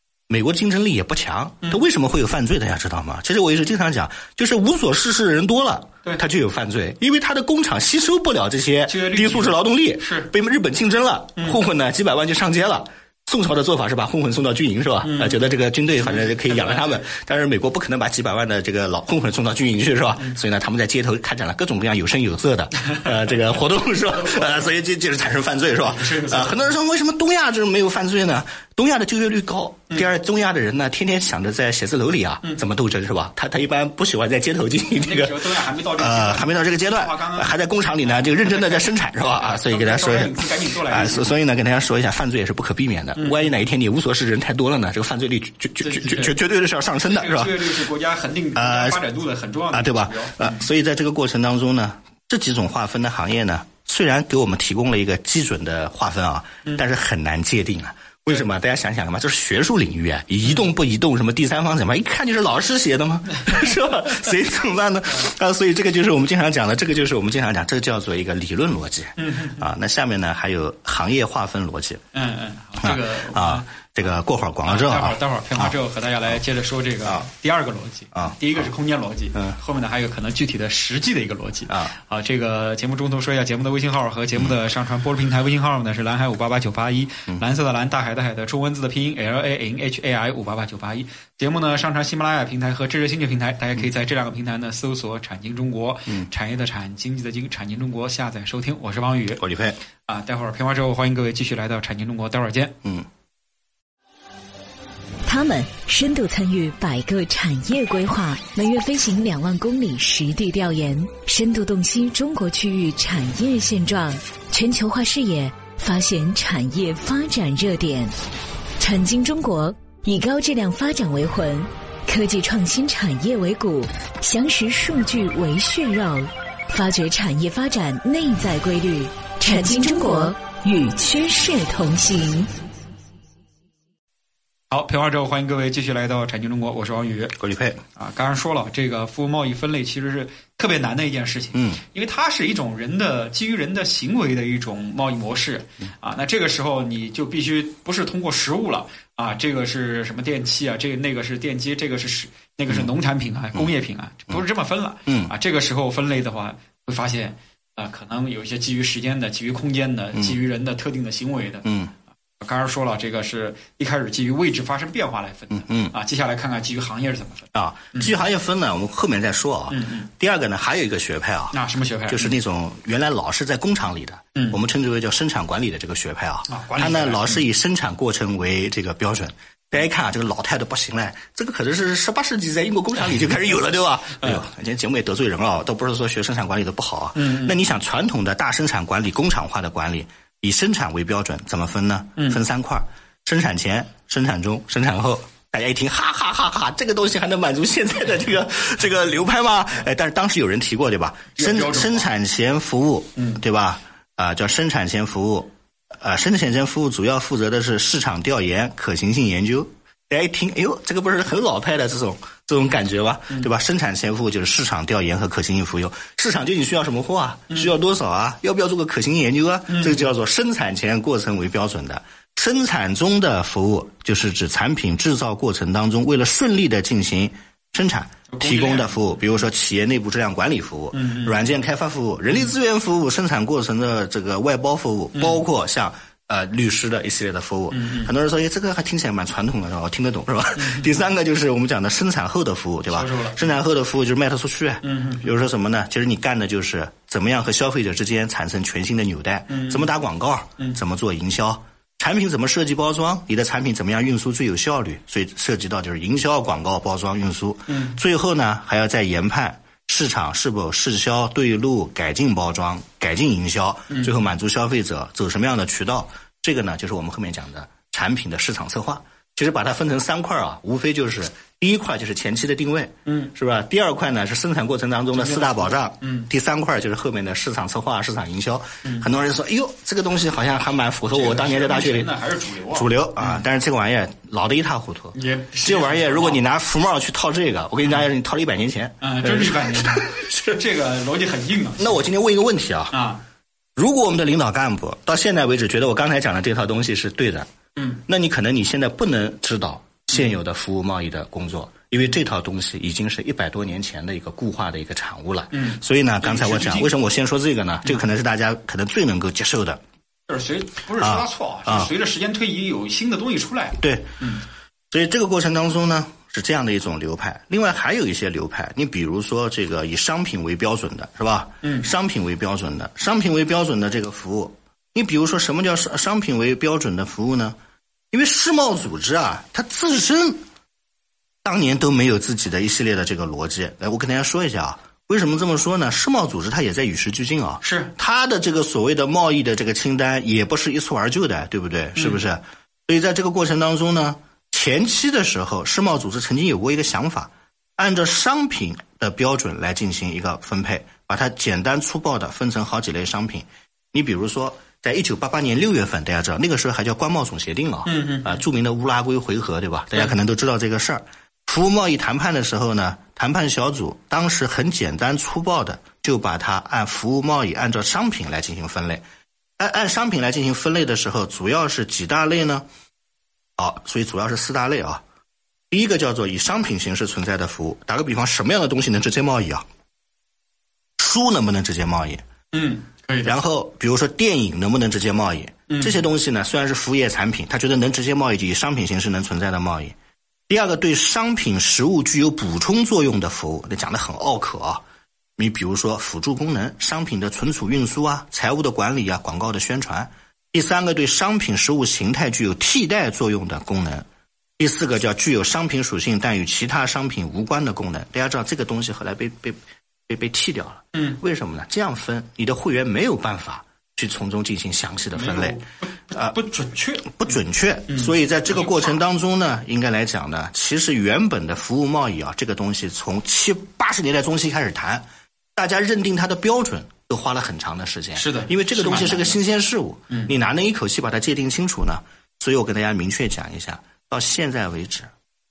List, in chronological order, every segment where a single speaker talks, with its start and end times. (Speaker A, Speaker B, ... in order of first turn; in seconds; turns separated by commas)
Speaker A: 0.3-47.8, Speaker B: 8.9-10.3, Speaker B: 11.4-11.6, Speaker B: 15.0-15.4, Speaker B: 16.0-17.1, Speaker B: 25.9-26.7, Speaker B: 34.9-41.3, Speaker B: 43.1-43.6, Speaker B: 45.8-46.4, Speaker B: 47.0-50.7, Speaker A: 48.5-49.0, Speaker A: 49.7-72.0, Speaker B: 69.2-69.7, Speaker B: 72.1-73.7, Speaker A: 72.8-76.4, Speaker B: 74.6-99.4, Speaker A: 78.1-78.7, Speaker A: 79.3-79.6, Speaker A: 81.7-82.0, Speaker A: 84.3-84.6, Speaker A: 99.4-99.8, Speaker B: 100.1-102.8, Speaker C: 105.3-118.1, Speaker C: 118.8-132.5, Speaker B: 134.7-137.4, Speaker A: 137.4-137.8, Speaker B: 137.9-161.7, Speaker A: 141.5-141.8, Speaker A: 152.7-152.9, Speaker A: 155.1-155.3, Speaker A: 160.1-160.4, Speaker A: 161.7-161.9, Speaker B: 162.4-168.1, Speaker A: 165.5-165.9, Speaker A: 167.5-282.2, Speaker B: 169.7-170.1, Speaker B: 171.5-172.4, Speaker B: 176.5-177.5, Speaker B: 187.2-187.6, Speaker B: 192.2-192.4, Speaker B: 201.4-202.1, Speaker B: 203.2-203.4, Speaker B: 219.7-220.1, Speaker B: 228.3-229.2, Speaker B: 230.9-231.5, Speaker B: 235.2-235.5, Speaker B: 237.7-238.1, Speaker B: 240.6-240.9, Speaker B: 242.9-243.6, Speaker B: 244.8-245.3, Speaker B: 249.5-249.9, Speaker B: 257.7-258.0, Speaker B: 263.9-264.2, Speaker B: 273.1-273.3, Speaker B: 275.1-276.3, Speaker B: 281.1-283.5, Speaker A: 282.7-290.3, Speaker B: 285.1-286.4, Speaker B: 289.0-292.1, Speaker A: 291.8-293.0, Speaker B: 292.9-293.2, Speaker A: 293.8-297.5, Speaker B: 297.8-298.0, Speaker A: 298.1-309.8, Speaker B: 305.5-307.0, Speaker B: 310.3-314.5, Speaker A: 311.0-311.9, Speaker A: 313.8-314.1, Speaker A: 314.9-327.6, Speaker B: 321.6-321.9, Speaker A: 328.1-330.4, Speaker A: 331.4-369.0, Speaker B: 337.6-337.9, Speaker B: 342.0-342.2, Speaker B: 357.9-358.4, Speaker A: 369.6-372.7, Speaker A: 373.6-375.0, Speaker A: 375.7-379.6, Speaker A: 381.0-382.2, Speaker B: 382.5-383.4, Speaker A: 383.2-390.0, Speaker B: 385.7-386.0, Speaker A: 390.5-394.8, Speaker A: 395.4-404.1, Speaker A: 404.6-415.6, Speaker B: 410.9-411.2, Speaker B: 415.1-417.2, Speaker A: 416.1-416.4, Speaker A: 417.0-435.1, Speaker B: 417.9-419.0, Speaker B: 428.1-429.4